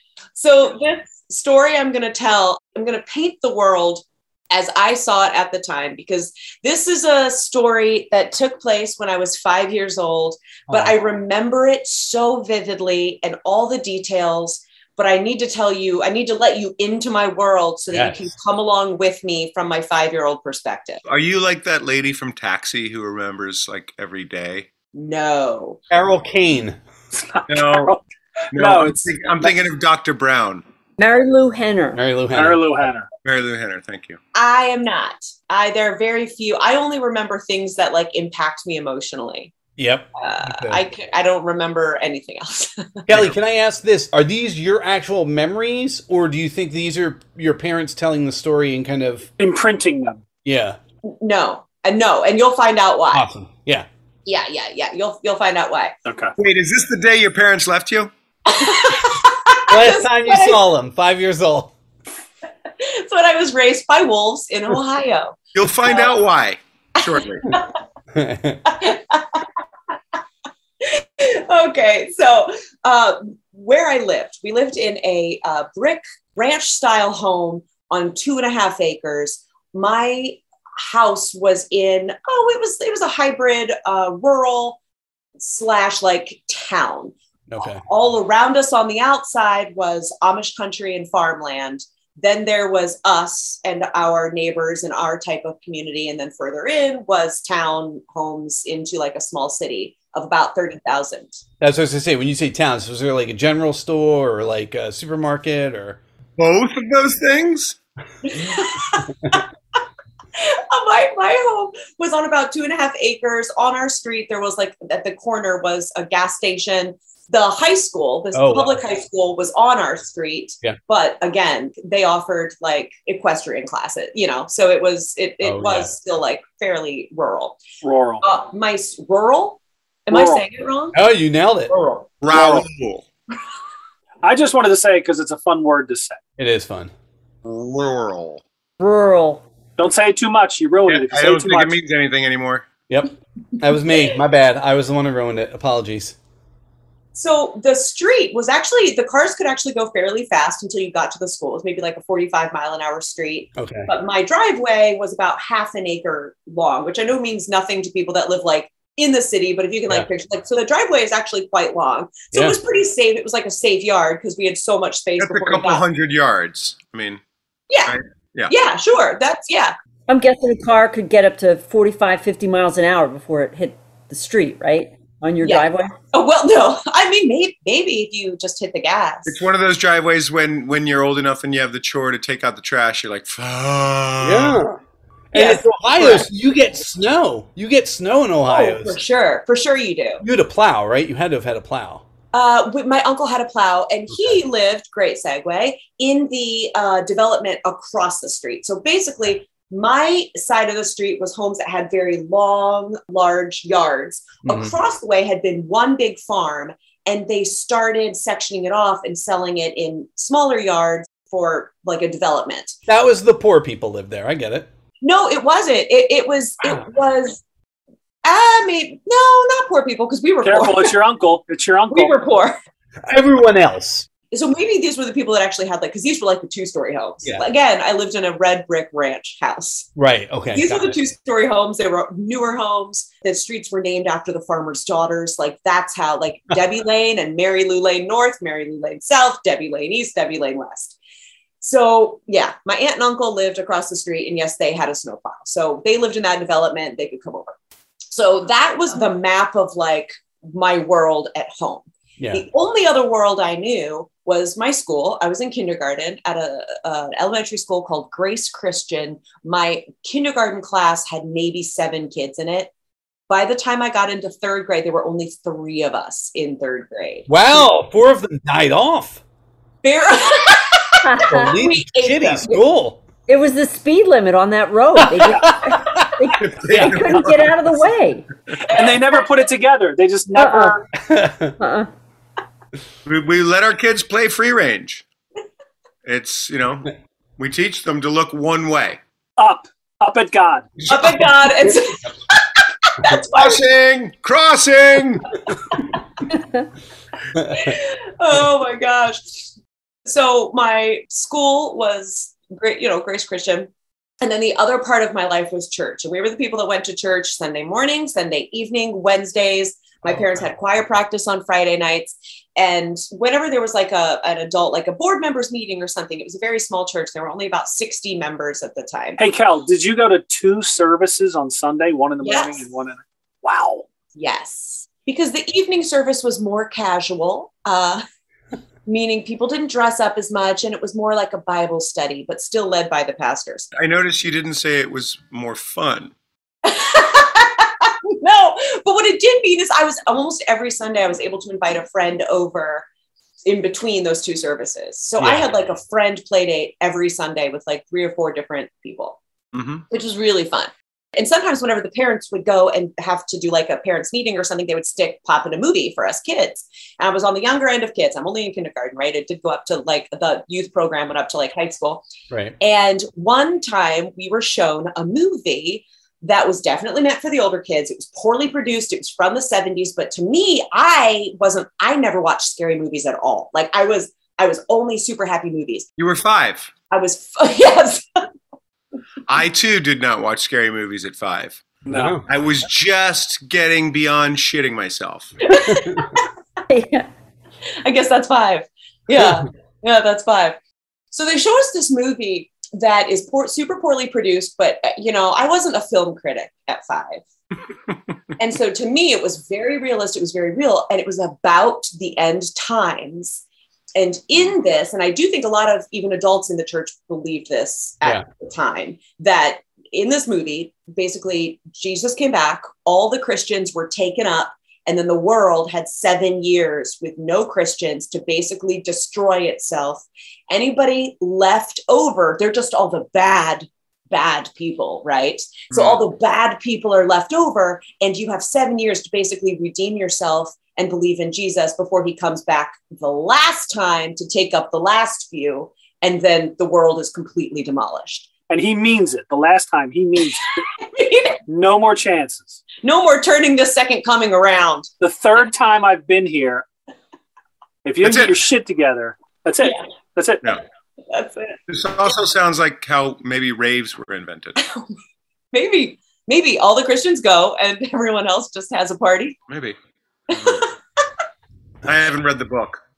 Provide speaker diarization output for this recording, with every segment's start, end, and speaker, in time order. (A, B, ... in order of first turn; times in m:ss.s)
0:00.4-0:21.0 A
0:10.7-0:10.9 B
0:17.9-0:18.3 B
0:21.0-0:24.7 C
0:24.9-0:25.8 A
0:25.9-0:26.8 B
0:27.1-0:28.0 D
0:27.5-0:27.9 C
0:28.5-0:29.6 D
0:28.5-0:30.6 C
0:31.0-0:32.0 E
0:32.0-0:32.6 B
0:32.3-0:33.1 D
0:33.2-0:34.2 C
0:34.4-0:39.5 A
0:39.8-0:40.8 B
0:40.2-0:43.1 A
0:43.1-0:49.3 B
0:49.4-0:50.2 D
0:50.4-0:50.8 B
0:51.0-0:53.3 A
0:53.1-0:53.9 B
0:54.3-0:56.0 A
0:56.1-0:56.3 D
0:56.4-0:58.1 C
0:58.5-1:00.6 A
0:59.7-1:01.7 B
1:02.8-1:05.4 A
1:05.5-1:07.6 C
1:08.1-1:08.6 B
1:08.6-1:09.4 A
1:10.8-1:24.8 A
1:25.4-1:27.1 A
1:27.5-1:27.8 B
1:27.7-1:41.4 A
1:41.6-1:46.0 B
1:46.4-1:47.8 C
1:48.2-1:49.4 A
1:50.4-2:07.6 A
1:58.3-1:58.8 B
2:05.4-2:05.9 B
2:07.8-2:08.2 D
2:08.2-2:11.0 A
2:10.1-2:10.4 D
2:10.9-2:11.7 B
2:11.7-2:12.4 A
2:12.2-2:13.0 C
2:12.3-2:12.6 D
2:14.2-2:16.2 D
2:16.4-2:16.9 B
2:17.4-2:18.4 C
2:18.8-2:19.4 E
2:19.8-2:21.8 D
2:20.9-2:22.7 C
2:22.9-2:26.2 B
2:27.1-2:45.8 A
2:33.6-2:33.9 B
2:42.3-2:42.6 B
2:45.2-2:47.2 C
2:47.7-2:48.0 A
2:47.9-2:48.5 C
2:48.5-2:49.7 A
2:50.1-2:56.0 E
2:55.4-2:59.4 A
2:59.3-3:04.6 C
3:04.2-3:04.8 B
3:05.3-3:09.0 B
3:05.3-3:06.3 A
3:08.5-3:10.2 A
3:10.2-3:12.0 B
3:12.3-3:32.8 A
3:24.4-3:24.7 B
3:32.9-3:34.7 B
3:35.0-3:37.4 A
3:38.2-3:41.0 A
3:40.4-3:42.2 D
3:41.9-3:42.6 A
3:43.0-3:44.1 B
3:44.3-3:49.9 A
3:50.0-3:51.0 B
3:50.5-4:01.0 A
4:01.6-4:07.6 A
4:08.1-4:22.7 A
4:23.3-4:27.3 A
4:27.3-4:29.2 B
4:29.8-4:32.6 A
4:31.0-4:31.5 E
4:31.3-4:33.0 B
4:33.3-4:38.2 E
4:35.0-4:37.3 B
4:36.4-4:37.5 C
4:38.7-4:40.9 D
4:40.4-4:40.8 E
4:41.0-4:41.6 B
4:41.6-4:41.9 E
4:43.0-4:45.0 C
4:46.0-4:49.0 C
4:49.4-4:50.7 D
4:50.8-4:51.2 C
4:50.9-4:53.6 A
4:53.0-4:55.3 C
4:57.4-4:57.7 B
4:57.5-4:59.5 A
5:00.0-5:03.7 A
5:04.2-5:19.2 A
5:19.2-5:23.8 D
5:22.2-5:22.6 A
5:24.2-5:28.0 A
5:28.9-5:33.7 A
5:33.8-5:36.1 C
5:36.6-5:42.8 A
5:43.4-5:49.2 A
5:49.5-5:49.8 C
5:49.9-6:02.0 A
6:02.6-6:15.9 A
6:16.0-6:16.7 C
6:16.9-6:18.3 A
6:19.3-6:21.7 C
6:21.9-6:22.2 B
6:21.9-6:22.2 D
6:22.2-6:25.4 C
6:25.5-6:26.2 A
6:26.7-6:27.1 E
6:27.8-6:30.6 A
6:31.1-6:37.2 A
6:38.4-6:43.4 A
6:44.0-7:18.3 A
7:05.7-7:06.0 C
7:18.5-7:20.6 D
7:20.8-7:21.4 A
7:21.5-7:22.6 D
7:22.8-7:24.9 A
7:25.0-7:26.7 D
7:27.8-7:30.5 D
7:28.0-7:28.4 C
7:31.1-7:31.6 A
7:31.7-7:34.6 C
7:34.6-7:34.9 A
7:35.5-7:39.4 A
7:39.5-7:39.8 C
7:40.3-7:40.6 C
7:40.3-7:40.8 A
7:41.8-7:42.8 C